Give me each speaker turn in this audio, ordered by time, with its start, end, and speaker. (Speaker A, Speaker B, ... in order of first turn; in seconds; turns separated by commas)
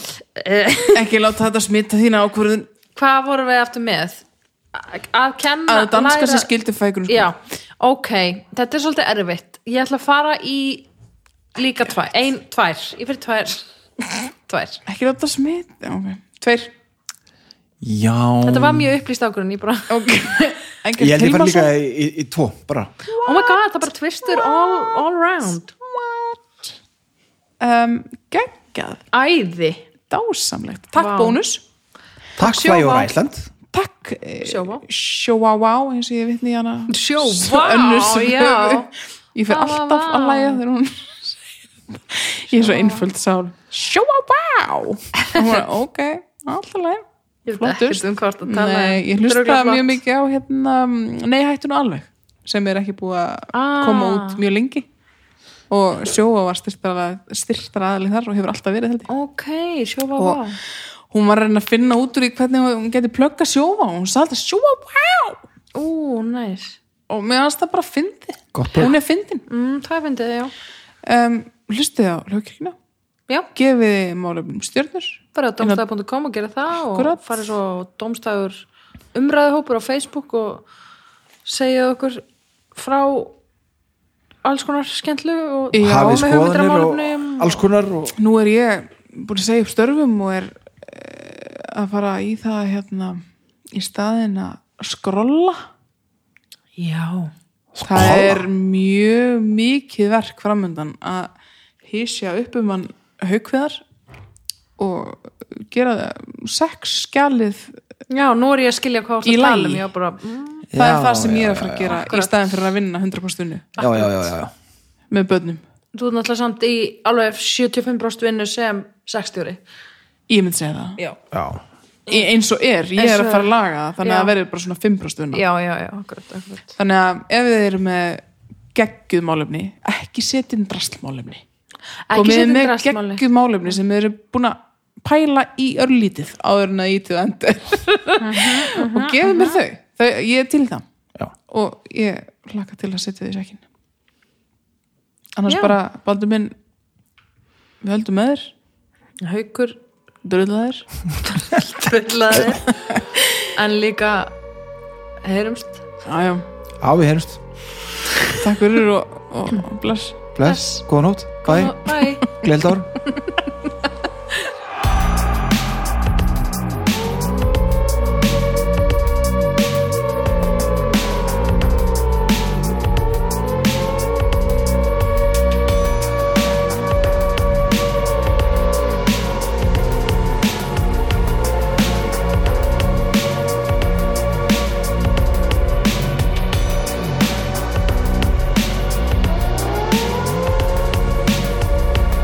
Speaker A: 0.3-1.1, Speaker B: 0.9-2.7, Speaker A: 3.0-4.2, Speaker A: 4.7-6.5, Speaker B: 5.7-7.3, Speaker A: 7.1-10.9, Speaker A: 11.5-13.7, Speaker A: 14.4-14.8, Speaker B: 14.8-16.7, Speaker C: 17.8-18.9, Speaker A: 18.4-20.5, Speaker B: 19.9-21.7, Speaker C: 21.0-23.1, Speaker B: 23.1-23.6, Speaker A: 23.2-25.7, Speaker B: 24.3-25.0, Speaker B: 25.9-26.4, Speaker B: 27.6-29.0, Speaker A: 29.1-29.8, Speaker B: 30.1-31.6, Speaker A: 30.9-31.4, Speaker C: 32.4-33.5, Speaker A: 32.4-33.1, Speaker B: 33.7-41.4, Speaker A: 34.4-34.8, Speaker A: 36.9-38.9, Speaker A: 39.5-40.6, Speaker B: 42.1-54.9, Speaker A: 42.6-43.0, Speaker A: 47.5-50.0, Speaker A: 53.5-54.4, Speaker B: 55.7-59.1, Speaker A: 59.1-60.6, Speaker B: 61.1-65.4, Speaker A: 65.7-66.8, Speaker B: 67.1-69.4, Speaker C: 68.5-68.9, Speaker A: 69.5-70.5, Speaker B: 71.0-72.8, Speaker B: 73.5-75.8, Speaker A: 75.3-78.6, Speaker B: 76.9-77.2, Speaker A: 79.1-80.6, Speaker A: 81.4-82.2, Speaker A: 82.7-83.3, Speaker A: 84.4-87.6, Speaker B: 85.7-86.3, Speaker C: 85.7-88.2, Speaker B: 88.2-93.2, Speaker B: 93.7-95.6, Speaker A: 96.8-97.3, Speaker C: 97.7-98.4, Speaker B: 97.8-101.3, Speaker B: 101.8-103.8, Speaker B: 104.8-107.8, Speaker A: 108.1-110.7, Speaker B: 109.2-109.8, Speaker C: 110.7-111.9, Speaker B: 110.7-113.8, Speaker A: 111.8-112.5, Speaker A: 113.8-114.3, Speaker C: 113.8-114.5, Speaker B: 115.1-115.6, Speaker A: 115.9-119.6, Speaker B: 120.3-121.0, Speaker C: 121.3-121.6, Speaker B: 122.1-125.4, Speaker A: 123.0-124.3, Speaker A: 125.3-126.7, Speaker B: 126.8-128.2, Speaker B: 128.7-131.4, Speaker A: 132.1-133.2, Speaker B: 132.1-140.8, Speaker A: 138.2-139.6, Speaker B: 141.5-143.6, Speaker B: 145.4-146.5, Speaker A: 145.5-145.8, Speaker B: 147.8-148.5, Speaker A: 149.2-149.8, Speaker B: 150.2-150.9, Speaker A: 151.4-152.7, Speaker A: 153.5-154.3, Speaker A: 155.2-155.8, Speaker B: 156.0-156.4, Speaker C: 156.8-157.4, Speaker B: 158.3-160.2, Speaker C: 160.3-162.9, Speaker A: 160.4-160.8, Speaker A: 161.4-162.3